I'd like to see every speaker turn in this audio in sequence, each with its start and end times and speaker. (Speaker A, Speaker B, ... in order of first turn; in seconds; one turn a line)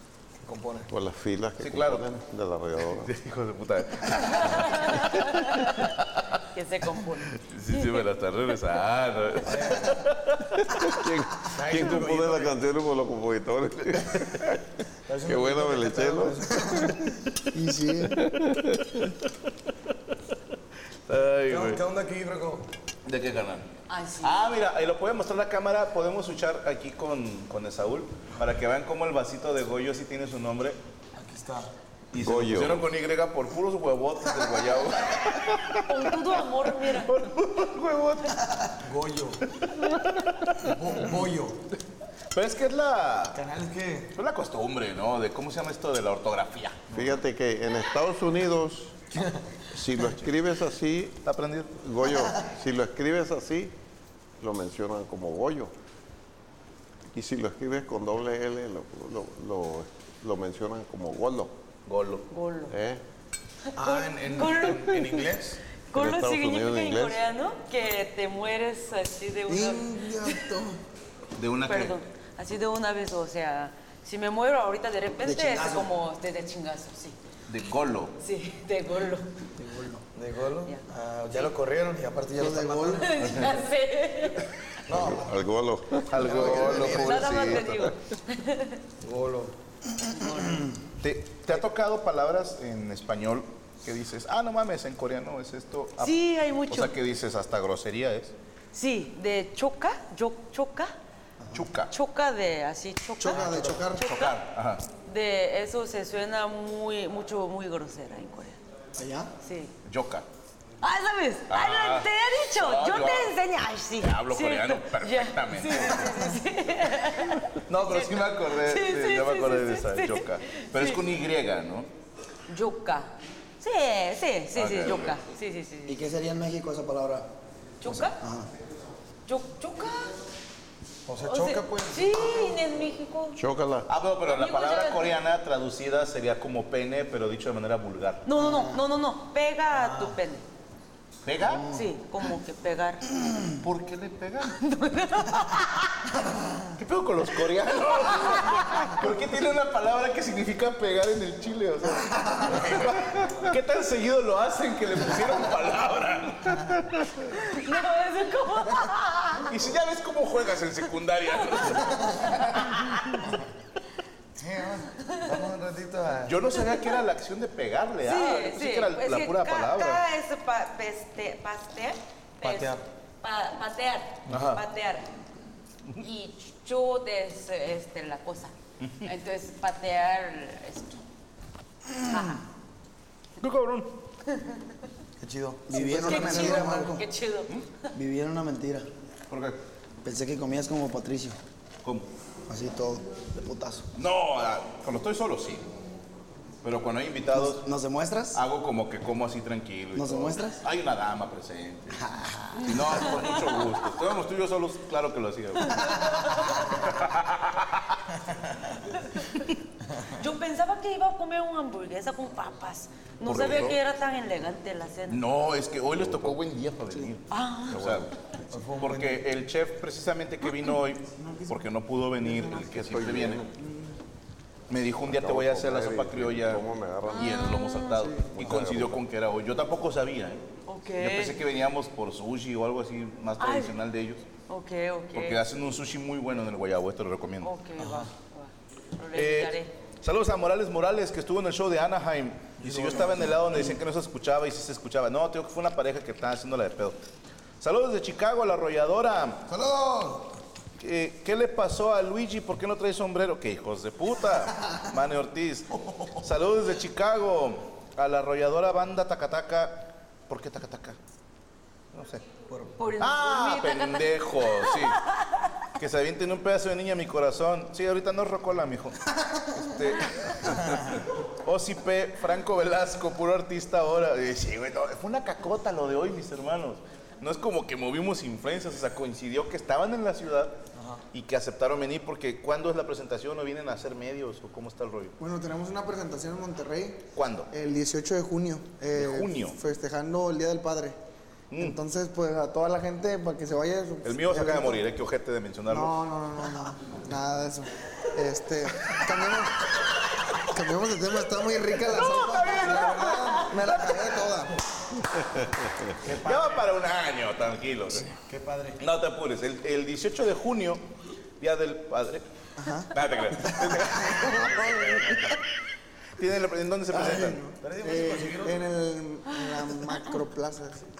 Speaker A: 0.4-0.9
Speaker B: 0.9-3.1
Speaker C: 1.6-2.0
Speaker C: 3.0-6.2
Speaker D: 4.3-5.7
Speaker D: 6.5-8.0
Speaker C: 7.5-10.9
Speaker A: 9.4-10.0
Speaker B: 10.7-14.6
Speaker A: 11.5-12.6
Speaker A: 15.1-17.0
Speaker B: 15.2-17.0
Speaker E: 17.5-18.1
Speaker B: 18.1-19.1
Speaker C: 21.1-21.8
Speaker A: 21.5-22.7
Speaker C: 23.1-23.7
Speaker D: 23.9-24.5
Speaker C: 24.2-30.8
Speaker A: 31.1-31.7
Speaker C: 32.1-36.0
Speaker B: 32.1-32.8
Speaker D: 35.8-37.1
Speaker C: 36.8-38.4
Speaker A: 38.8-39.4
Speaker C: 39.6-40.7
Speaker A: 40.6-41.6
Speaker C: 42.3-43.4
Speaker A: 43.3-44.1
Speaker C: 44.1-47.2
Speaker B: 46.9-49.0
Speaker B: 49.7-51.2
Speaker C: 50.0-50.3
Speaker C: 51.2-51.7
Speaker B: 51.8-53.7
Speaker B: 54.4-55.7
Speaker B: 57.1-61.5
Speaker C: 61.9-62.3
Speaker D: 62.3-62.7
Speaker B: 62.7-63.0
Speaker D: 63.7-65.0
Speaker A: 63.8-65.6
Speaker D: 65.9-70.4
Speaker B: 65.9-67.2
Speaker F: 69.5-70.6
Speaker E: 69.9-70.5
Speaker C: 71.3-71.9
Speaker D: 71.7-77.2
Speaker E: 75.2-75.9
Speaker C: 77.5-78.1
Speaker D: 78.2-79.3
Speaker E: 79.6-80.0
Speaker A: 80.1-83.1
Speaker D: 80.6-81.5
Speaker E: 82.4-83.0
Speaker D: 83.0-84.5
Speaker C: 83.2-83.5
Speaker A: 84.9-85.4
Speaker B: 84.9-86.9
Speaker C: 86.1-87.9
Speaker A: 86.2-87.5
Speaker D: 86.4-88.8
Speaker A: 89.0-89.5
Speaker D: 90.1-90.7
Speaker C: 91.0-96.2
Speaker D: 96.0-96.9
Speaker C: 96.7-98.3
Speaker D: 98.7-100.9
Speaker C: 101.5-101.9
Speaker D: 101.9-104.4
Speaker E: 103.2-104.0
Speaker F: 103.3-103.9
Speaker C: 103.9-104.8
Speaker D: 105.0-108.6
Speaker F: 109.0-109.3
Speaker D: 109.4-109.7
Speaker C: 109.8-110.2
Speaker D: 110.8-121.0
Speaker C: 111.5-113.3
Speaker C: 114.0-116.2
Speaker C: 117.5-121.9
Speaker D: 122.5-126.0
Speaker C: 124.5-125.2
Speaker E: 125.9-127.3
Speaker D: 127.8-128.2
Speaker E: 127.9-128.5
Speaker D: 129.2-130.2
Speaker A: 131.1-132.5
Speaker D: 131.2-133.4
Speaker B: 133.3-133.9
Speaker C: 133.9-138.2
Speaker D: 134.2-135.2
Speaker D: 138.2-140.4
Speaker E: 138.3-138.8
Speaker A: 139.7-140.2
Speaker C: 141.2-141.6
Speaker E: 141.4-141.8
Speaker D: 141.7-143.0
Speaker C: 143.6-144.6
Speaker D: 144.5-145.9
Speaker C: 146.8-157.3
Speaker D: 147.9-148.9
Speaker D: 157.3-159.5
Speaker C: 159.5-163.0
Speaker A: 164.4-166.3
Speaker C: 166.2-170.0
Speaker D: 166.6-167.0
Speaker D: 168.0-175.1
Speaker A: 172.4-172.8
Speaker C: 174.3-174.6
Speaker A: 174.3-174.6
Speaker D: 175.9-181.0
Speaker D: 182.0-182.4
Speaker C: 183.4-183.9
Speaker D: 184.3-184.6
Speaker A: 185.2-186.9
Speaker E: 185.7-187.0
Speaker D: 186.0-187.6
Speaker E: 187.9-188.9
Speaker C: 189.3-189.6
Speaker E: 190.0-191.4
Speaker C: 191.8-192.1
Speaker E: 192.5-193.9
Speaker C: 193.9-195.7
Speaker C: 196.6-197.7
Speaker E: 197.3-198.4
Speaker C: 198.3-202.1
Speaker E: 199.9-200.6
Speaker E: 202.0-202.6
Speaker D: 202.6-203.5
Speaker C: 202.6-207.9
Speaker D: 205.6-206.9
Speaker D: 209.0-209.5
Speaker D: 210.1-215.2
Speaker C: 213.2-213.8
Speaker C: 215.1-218.1
Speaker B: 216.0-216.3
Speaker D: 217.3-218.0
Speaker B: 217.7-218.1
Speaker A: 218.5-219.2
Speaker C: 218.8-223.5
Speaker B: 222.5-223.5
Speaker C: 224.7-226.6
Speaker B: 225.1-227.4
Speaker D: 227.1-227.9
Speaker C: 227.1-230.4
Speaker B: 228.2-229.0
Speaker D: 230.7-231.4
Speaker C: 231.0-234.2
Speaker D: 233.4-233.8
Speaker D: 234.5-235.4
Speaker C: 235.1-237.5
Speaker D: 237.4-239.7
Speaker A: 237.8-238.1
Speaker C: 239.1-247.0
Speaker A: 242.6-243.5
Speaker C: 247.6-249.5
Speaker C: 250.8-261.0
Speaker C: 261.9-262.2
Speaker A: 262.5-262.7
Speaker D: 262.8-265.4
Speaker C: 263.0-265.0
Speaker C: 265.8-280.6
Speaker A: 280.7-281.0
Speaker C: 281.1-285.1
Speaker F: 285.2-290.9
Speaker C: 287.1-287.5
Speaker C: 288.9-289.6
Speaker C: 291.5-291.8
Speaker F: 291.6-294.7
Speaker C: 294.0-295.9
Speaker E: 294.3-294.7
Speaker F: 295.7-299.6
Speaker F: 300.4-304.5
Speaker E: 301.7-303.3
Speaker C: 301.8-304.3
Speaker B: 305.4-305.9
Speaker C: 306.0-308.1
Speaker A: 306.1-306.6
Speaker A: 308.0-308.8
Speaker C: 308.8-310.8
Speaker C: 311.4-312.2
Speaker F: 312.6-312.9
Speaker C: 312.9-314.7
Speaker E: 313.4-314.9
Speaker C: 316.2-317.4
Speaker F: 317.0-320.9
Speaker A: 317.6-318.7
Speaker E: 317.8-318.2
Speaker E: 319.3-320.0